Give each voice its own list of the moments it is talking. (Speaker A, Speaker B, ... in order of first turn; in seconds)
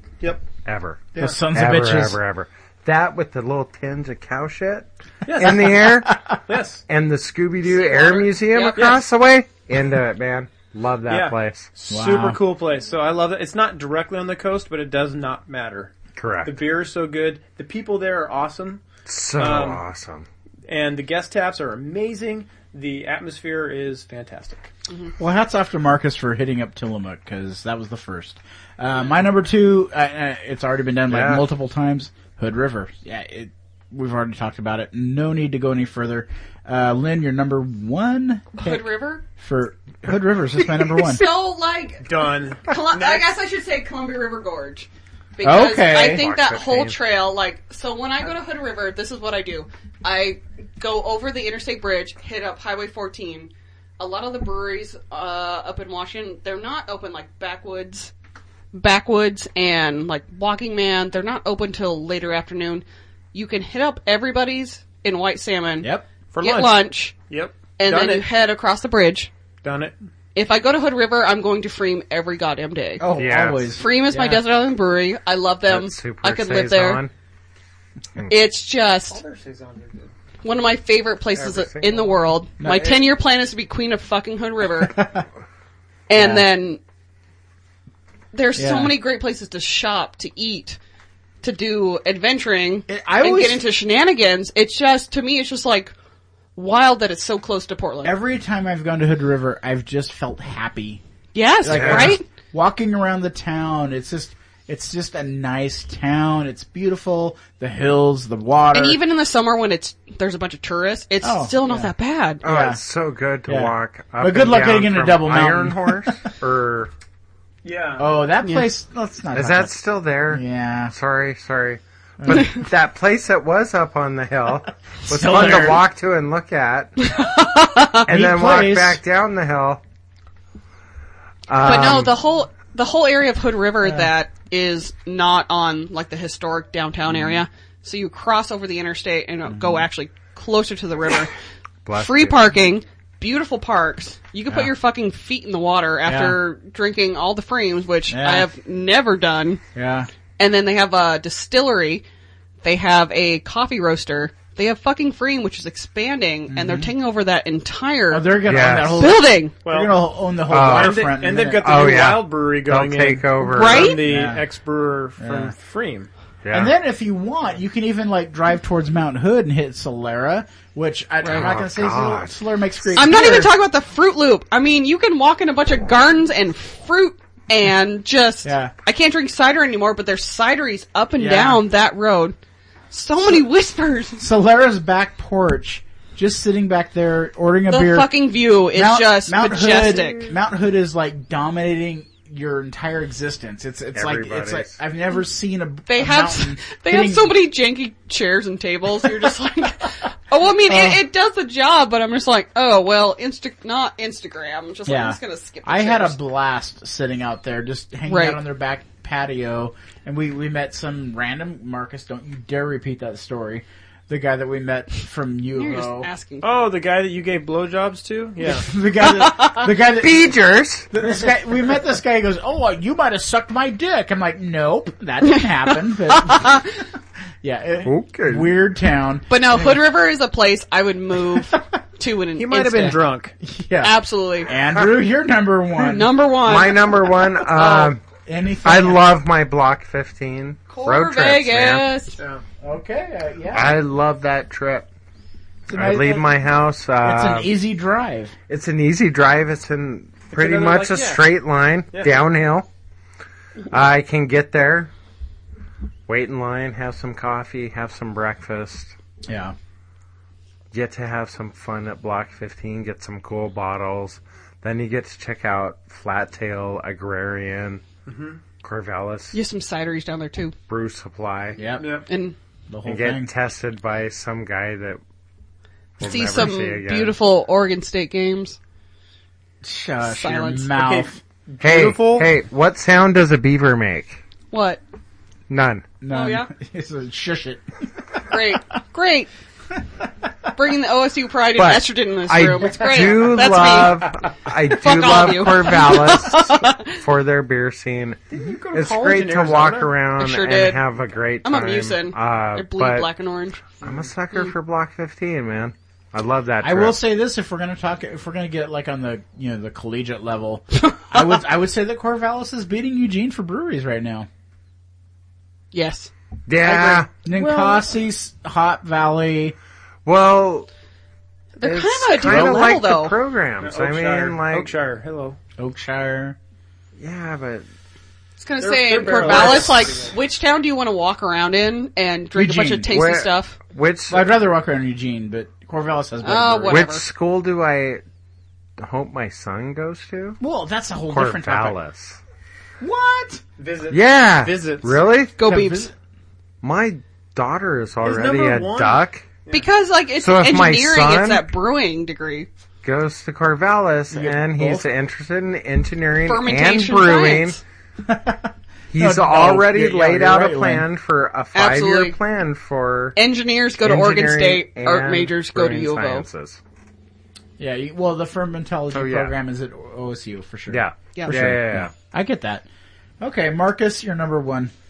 Speaker A: 0.2-0.5, 5.2-5.8, 6.5-6.8, 8.7-9.0, 11.1-15.9, 16.4-18.8, 19.4-19.8, 20.7-24.7, 42.0-43.3, 66.3-68.3, 69.6-70.0, 79.0-80.1, 117.6-118.1, 159.6-159.9, 160.5-166.1, 216.4-218.7, 232.3-233.3, 242.2-242.4, 250.3-251.2, 251.9-252.2, 268.1-268.4, 271.8-272.0, 280.8-282.3, 298.3-299.9, 303.8-304.1, 317.3-317.9, 323.6-325.4, 328.6-330.1, 343.6-345.0, 348.0-349.6
Speaker B: 0.6-6.2, 6.9-11.7, 16.1-16.6, 19.1-20.3, 31.1-31.4, 46.0-47.0, 73.1-73.8, 75.7-77.1, 81.3-82.1, 101.7-102.2, 112.4-116.9, 119.3-127.1, 128.1-129.8, 131.5-132.1, 141.8-142.5, 158.5-159.0, 160.5-164.0, 166.4-166.7, 171.2-172.3, 193.9-194.7, 220.0-220.9, 227.8-228.5, 236.4-238.0, 238.6-241.9, 243.5-244.9, 245.7-247.5, 248.5-252.7, 253.7-254.9, 256.1-258.9, 260.7-267.8, 268.6-269.4, 270.7-271.6, 272.8-275.0, 276.0-277.1, 281.6-284.2, 285.5-285.9, 291.5-303.1, 303.8-307.0, 316.5-317.1, 320.1-320.7, 321.6-324.7, 327.0-327.6, 329.1-329.7, 332.9-334.3, 336.7-338.0, 338.8-340.4, 341.1-342.2, 343.9-345.3, 346.6-349.2, 350.2-351.5, 352.8-357.6, 358.9-363.2, 363.8-366.6, 368.9-369.3, 370.7-371.9
Speaker C: 1.1-2.2, 6.0-6.3, 11.9-12.4, 25.2-41.2, 45.4-46.2, 73.0-74.4, 82.6-83.0, 84.8-85.2, 86.1-86.5, 88.5-88.9, 92.9-93.7, 98.0-101.0, 101.6-109.0, 111.2-111.9, 112.4-112.8, 113.5-116.3, 118.0-119.8, 120.3-120.9, 122.2-122.5, 125.1-125.8, 128.1-129.0, 133.8-134.1, 137.1-137.4, 139.4-139.8, 146.0-146.4, 148.1-148.5, 149.7-150.1, 156.5-156.9, 158.1-161.8, 164.0-164.4, 165.2-165.5, 166.5-173.5, 178.4-178.7, 181.2-181.6, 184.2-188.2, 188.7-197.4, 200.6-201.0, 204.8-216.1, 218.4-220.4, 220.9-226.8, 227.4-229.9, 232.7-236.1, 238.2-239.1, 242.6-243.8, 245.7-246.3, 247.0-248.3, 259.2-259.5, 271.6-271.9, 272.7-273.3, 279.6-281.2, 286.0-287.6, 288.1-288.4, 292.6-293.5, 306.6-314.3, 317.2-319.5, 322.2-322.7, 325.6-326.4, 332.3-332.9, 334.1-336.9, 340.4-341.8, 342.8-343.4, 345.4-345.9, 354.1-354.8, 358.0-360.9, 367.6-372.6, 373.2-374.7
Speaker D: 7.7-9.0, 38.6-39.2, 40.9-58.1, 58.7-67.1, 67.8-69.3, 70.3-73.1, 73.8-77.0, 78.2-79.2, 80.4-85.0, 86.1-86.8, 88.3-90.8, 91.4-95.9, 96.5-98.2, 101.3-102.2, 108.7-112.4, 122.3-122.6, 127.0-128.1, 131.6-141.3, 141.9-149.6, 150.4-152.0, 152.6-159.5, 163.4-164.1, 172.9-182.3, 182.9-184.3, 187.7-190.3, 195.8-206.2, 208.1-208.4, 215.5-216.5, 219.1-219.7, 226.1-226.6, 229.3-233.0, 233.8-234.5, 235.8-237.9, 240.7-242.2, 269.3-270.5, 272.1-272.4, 276.0-278.6, 280.0-280.8, 284.5-284.8, 286.1-286.5, 288.3-289.3, 290.5-297.0, 300.2-300.8, 301.4-303.7, 310.8-311.4, 315.7-316.1, 316.6-317.1, 321.6-323.2, 328.4-333.6, 336.2-337.1, 345.4-345.9, 349.5-352.5, 356.2-357.6, 361.5-362.2, 363.1-366.2